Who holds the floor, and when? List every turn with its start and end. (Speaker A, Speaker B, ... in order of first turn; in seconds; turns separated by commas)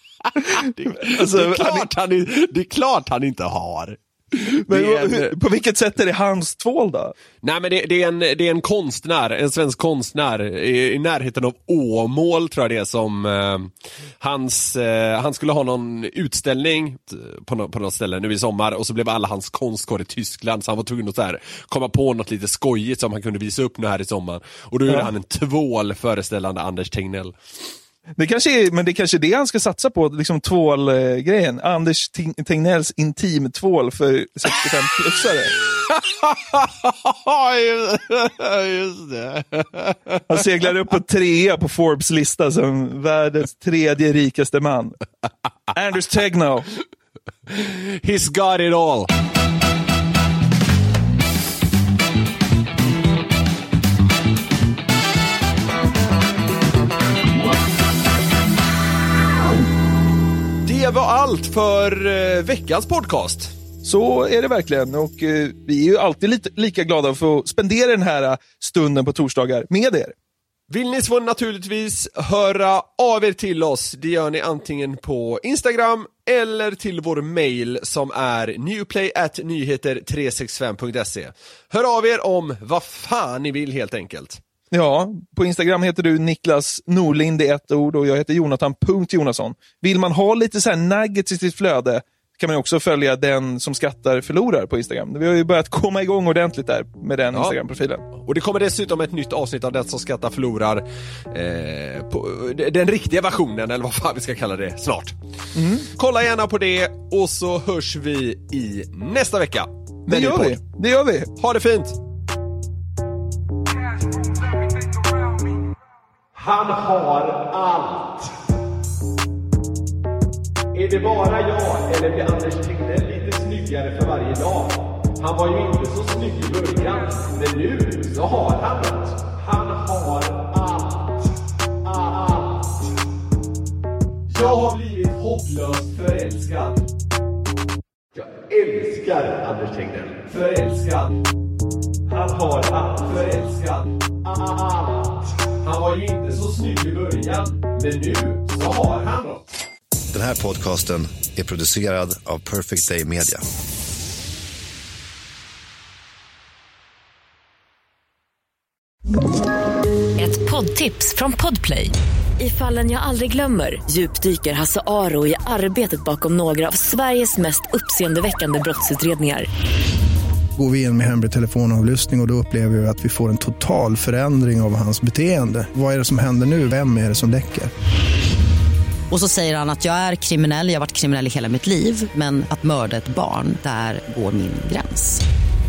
Speaker A: 0.2-5.3, Speaker B: 1.0-1.9, Speaker B: 4.7-7.1, Speaker A: 7.4-27.4, Speaker B: 28.2-35.5, Speaker A: 35.9-40.4, Speaker B: 40.3-45.0, Speaker B: 45.7-46.7, Speaker A: 47.5-49.1, Speaker A: 60.6-63.5, Speaker B: 63.8-70.1, Speaker A: 70.7-84.4, Speaker B: 84.7-98.0, Speaker A: 98.2-105.2, Speaker B: 105.5-105.9, Speaker A: 106.0-110.6, Speaker B: 110.1-111.3, Speaker A: 111.4-112.0, Speaker A: 116.3-118.3, Speaker A: 120.7-132.8, Speaker A: 134.3-136.8, Speaker A: 138.1-141.2, Speaker B: 142.1-142.7, Speaker A: 142.1-149.4, Speaker C: 150.1-153.4, Speaker D: 160.2-169.5, Speaker E: 170.6-177.7, Speaker F: 179.1-185.2